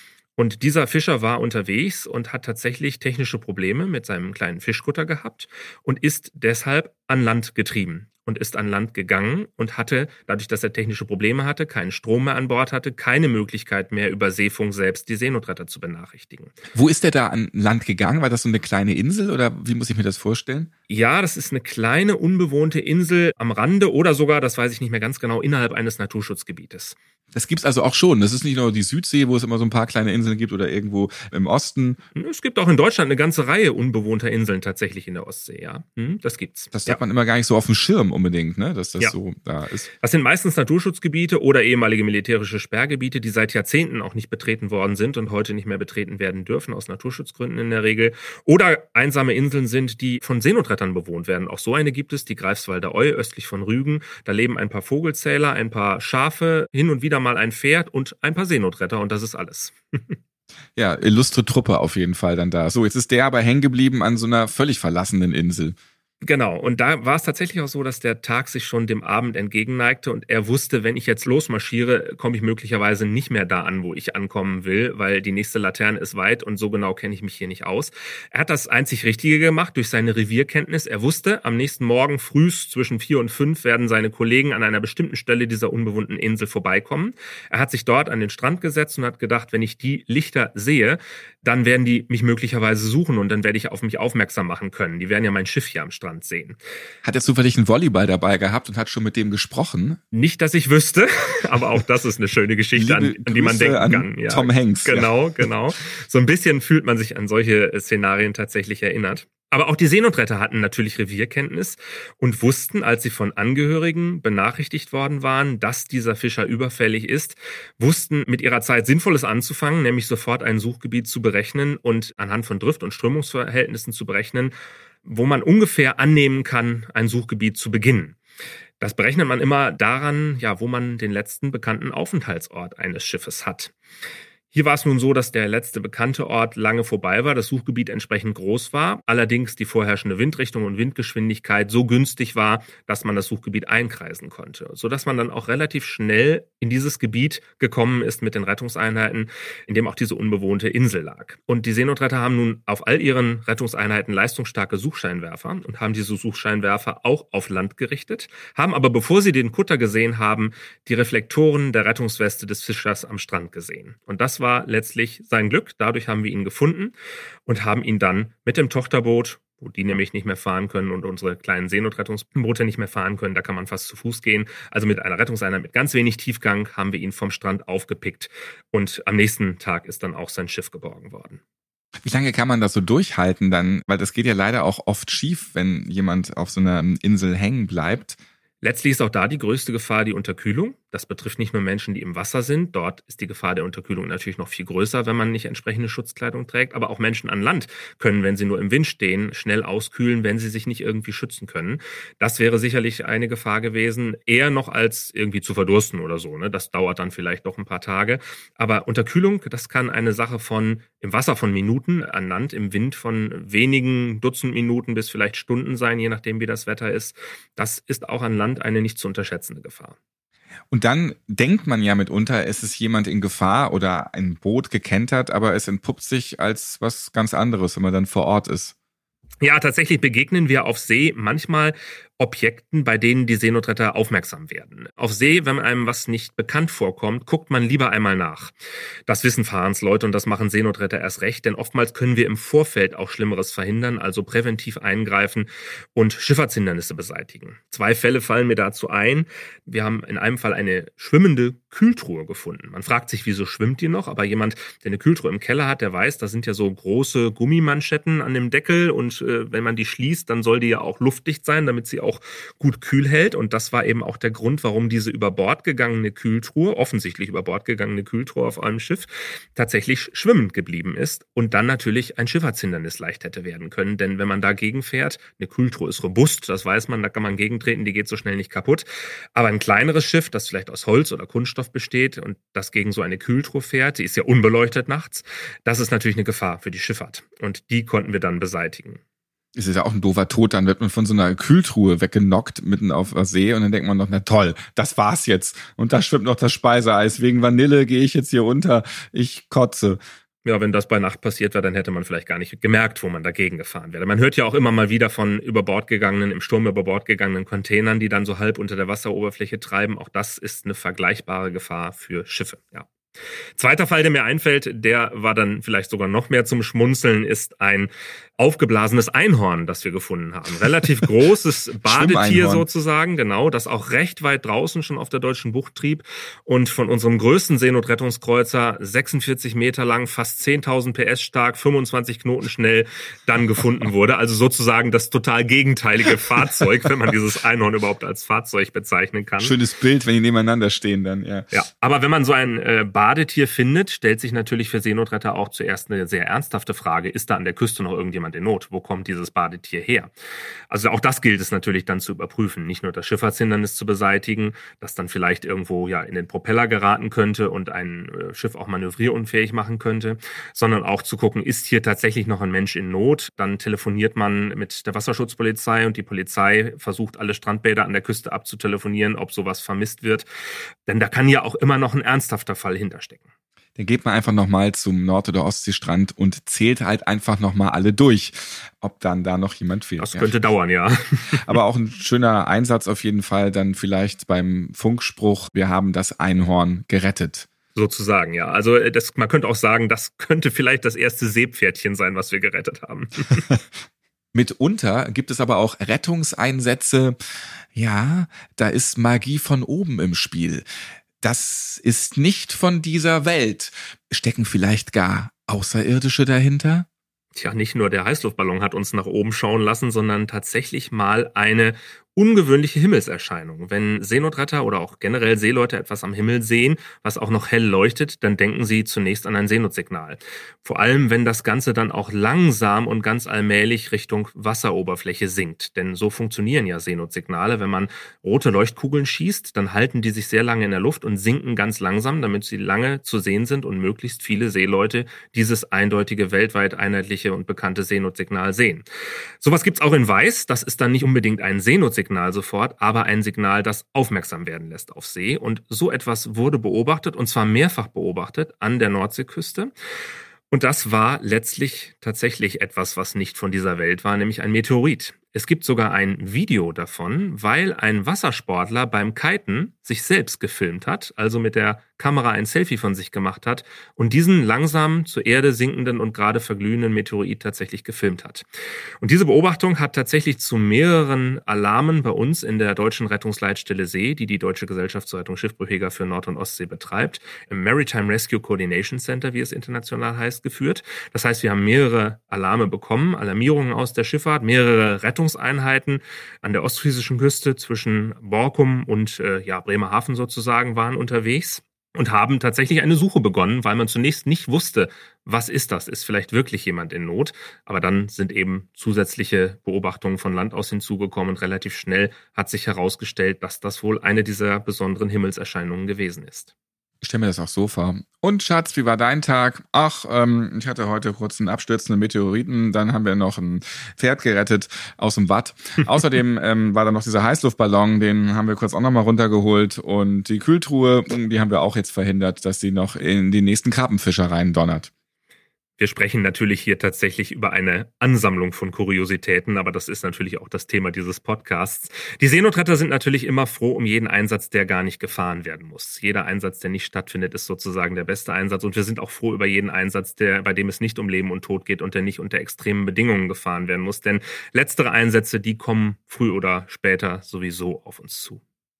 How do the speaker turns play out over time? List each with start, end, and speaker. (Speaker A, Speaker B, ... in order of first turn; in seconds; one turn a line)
Speaker A: 0.4-16.5
Speaker B: 16.7-20.7
Speaker A: 20.9-27.0
Speaker B: 27.3-32.0
Speaker A: 32.2-37.0
Speaker B: 36.7-39.9
Speaker A: 40.0-60.2
Speaker B: 60.8-65.8
Speaker A: 66.2-96.6
Speaker B: 97.0-100.0
Speaker A: 100.1-124.5
Speaker B: 102.8-105.1
Speaker A: 125.0-128.2
Speaker A: 128.8-133.7
Speaker A: 134.5-166.9
Speaker A: 167.5-181.4
Speaker B: 182.1-188.2
Speaker A: 188.6-219.9
Speaker B: 220.7-228.7
Speaker A: 229.4-238.5
Speaker A: 239.1-289.0
Speaker B: 289.6-300.0
Speaker A: 300.4-312.9
Speaker A: 313.6-339.6
Speaker B: 321.9-322.7
Speaker B: 339.4-341.5
Speaker A: 341.5-350.1
Speaker A: 350.7-370.3
Speaker A: 370.9-373.3
Speaker B: 373.8-380.3
Speaker A: 380.0-381.4
Speaker B: 381.4-387.5
Speaker A: 387.8-393.5
Speaker B: 394.3-397.2
Speaker B: 397.7-400.6
Speaker B: 401.2-406.9
Speaker A: 407.4-438.8
Speaker A: 439.4-449.7
Speaker A: 450.5-468.4
Speaker A: 469.0-506.5
Speaker B: 507.0-524.9
Speaker A: 525.8-548.4